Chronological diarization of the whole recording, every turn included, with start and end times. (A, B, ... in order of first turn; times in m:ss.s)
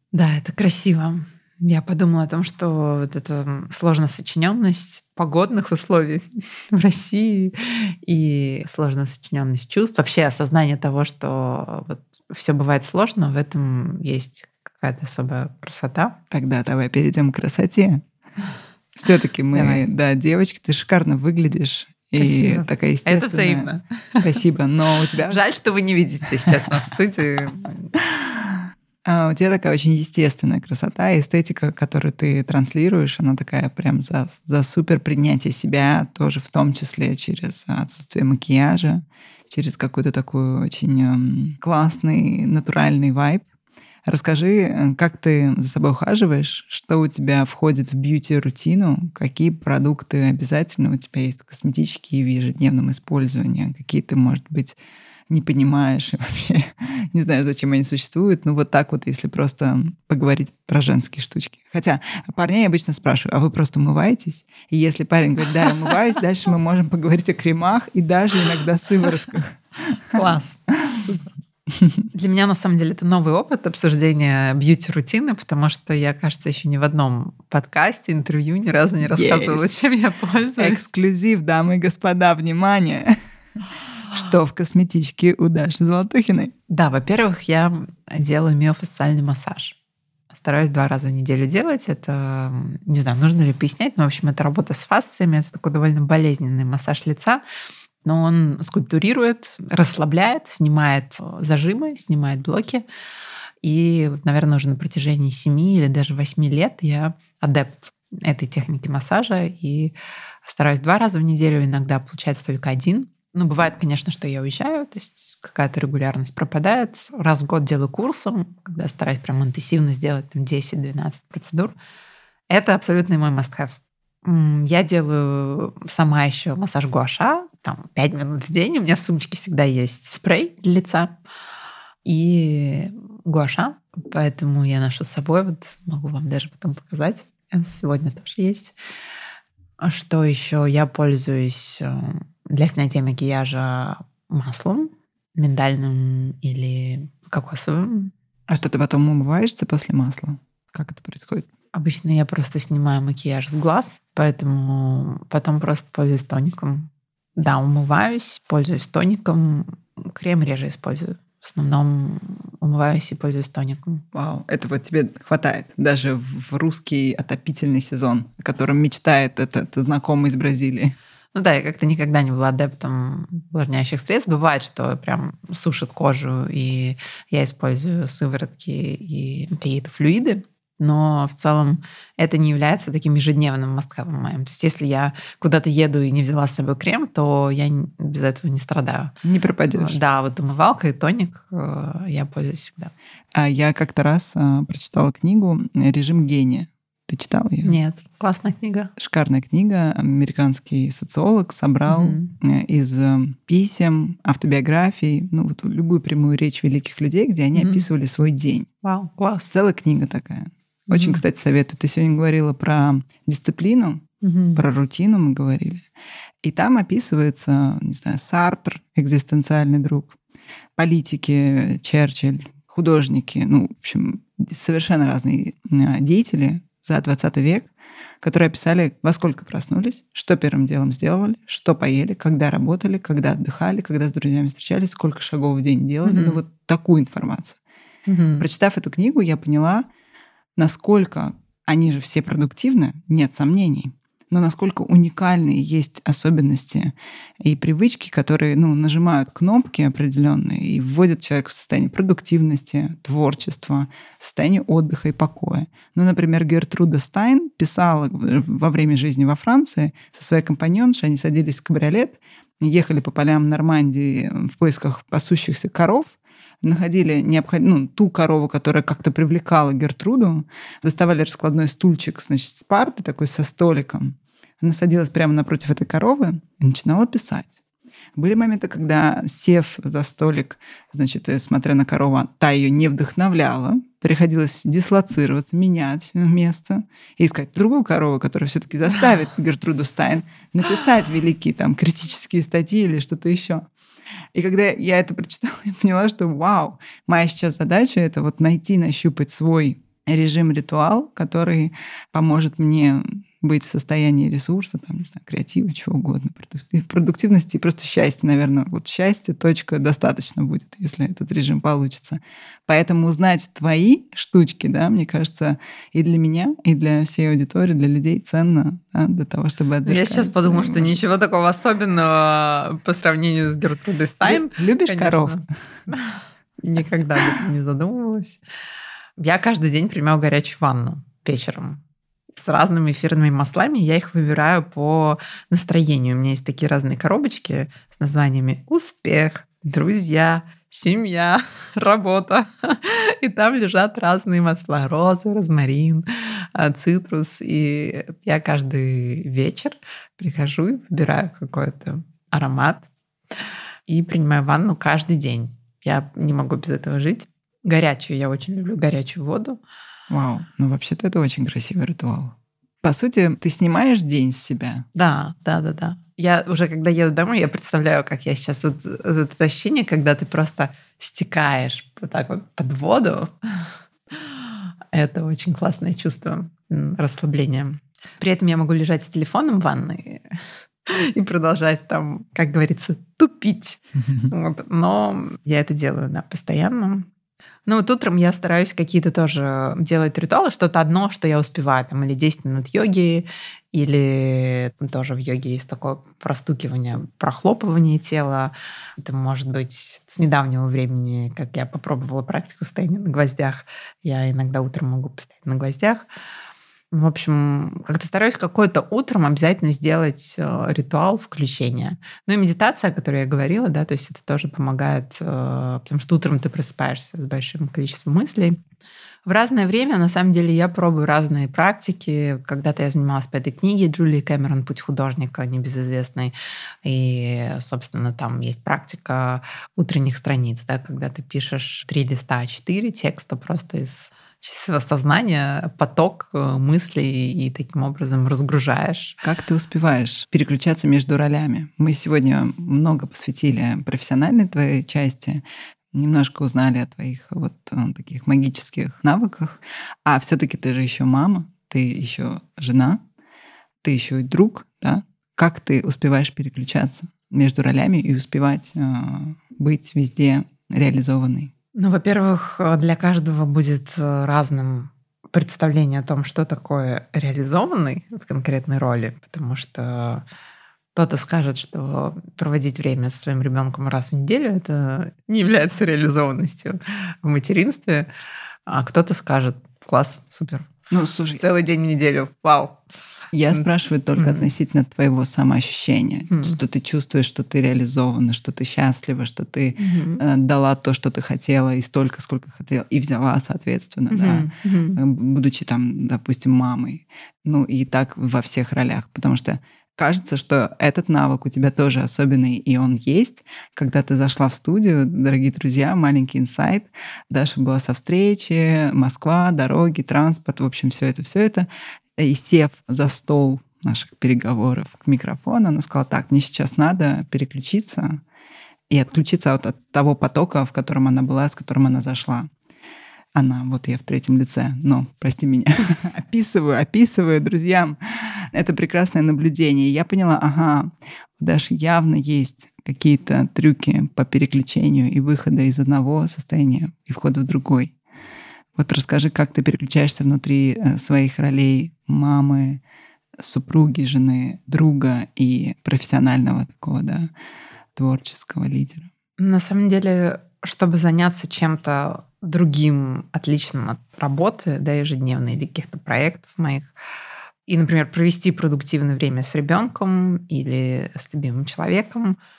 0:00.1-0:16.2 A
0:16.3-0:18.0 B
0:19.0-0:25.4 B
0:19.5-0:19.8 A
0:22.2-0:24.4 A
0:25.3-0:28.0 A
0:29.0-0:43.5 B
0:44.1-0:54.8 B
0:55.3-1:10.2 B
1:10.1-1:11.3 A
1:11.8-1:12.0 B
1:12.1-1:20.8 A
1:19.0-1:19.9 B
1:20.6-1:23.2 B
1:24.1-1:26.5 B
1:26.7-1:29.8 A
1:30.3-1:37.4 A
1:38.0-1:42.8 A
1:43.6-2:01.8 A
2:02.5-2:11.2 A
2:12.0-2:18.7 A
2:19.8-2:28.1 A
2:28.5-2:31.5 B
2:31.7-2:44.0 A
2:44.1-2:51.0 B
2:51.4-3:09.1 A
3:09.2-3:10.0 B
3:09.8-3:12.9 A
3:13.3-3:17.8 B
3:17.6-3:18.9 A
3:19.0-3:28.7 B
3:21.9-3:22.3 A
3:27.6-3:27.8 A
3:28.8-3:29.5 A
3:29.5-3:35.9 B
3:30.9-3:31.2 A
3:34.2-3:34.6 A
3:36.4-3:40.2 B
3:40.8-3:47.7 B
3:48.2-3:57.6 B
3:56.0-3:56.4 A
3:58.1-3:58.5 A
3:58.4-3:59.9 B
4:00.6-4:37.6 B
4:38.2-4:53.7 B
4:54.3-5:20.9 B
5:19.8-5:28.4 A
5:24.2-5:25.4 B
5:29.2-5:31.8 A
5:32.4-5:52.9 A
5:53.9-5:59.6 A
6:00.1-6:04.9 B
6:05.0-6:13.6 A
6:14.9-6:20.2 A
6:20.9-6:27.1 A
6:27.7-6:46.1 A
6:46.9-6:58.6 A
6:59.2-7:06.3 A
7:06.8-7:19.2 A
7:19.2-7:33.0 B
7:33.8-7:41.5 B
7:41.8-7:50.2 A
7:51.0-7:58.1 A
7:58.7-8:02.8 A
8:00.9-8:01.4 B
8:03.3-8:38.2 B
8:04.2-8:04.4 A
8:06.3-8:06.6 A
8:09.8-8:10.2 A
8:14.1-8:15.0 A
8:38.9-8:42.5 B
8:43.4-8:58.0 B
8:58.8-9:02.8 B
9:03.4-9:07.3 B
9:08.0-9:09.1 B
9:09.4-9:16.9 A
9:17.7-9:22.4 A